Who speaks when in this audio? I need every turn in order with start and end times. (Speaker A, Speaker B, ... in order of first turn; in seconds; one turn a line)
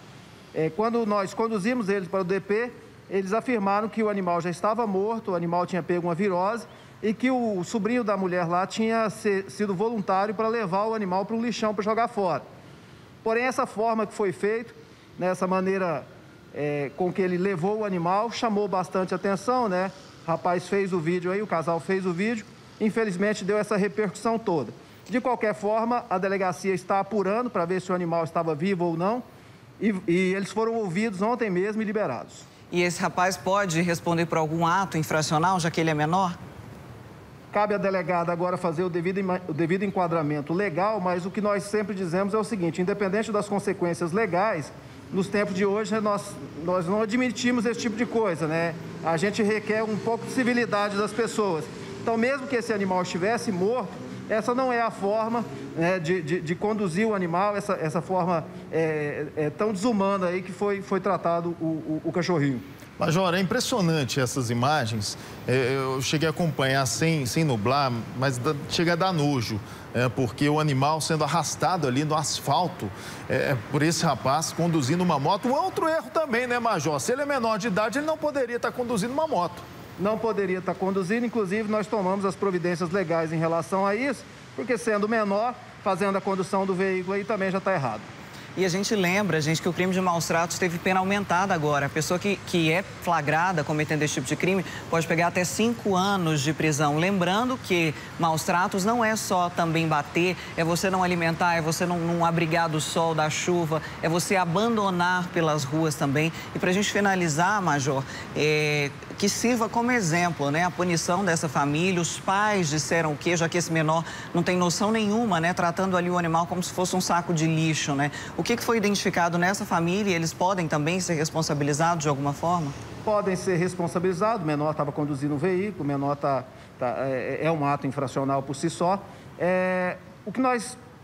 Speaker A: 0.5-12.4
Speaker A: 13.2-29.2
Speaker A: 29.8-32.5
Speaker B: 32.7-36.4
Speaker A: 37.5-62.6
Speaker C: 63.0-79.6
Speaker A: 80.0-88.0
Speaker B: 88.5-122.8
Speaker A: 123.0-130.8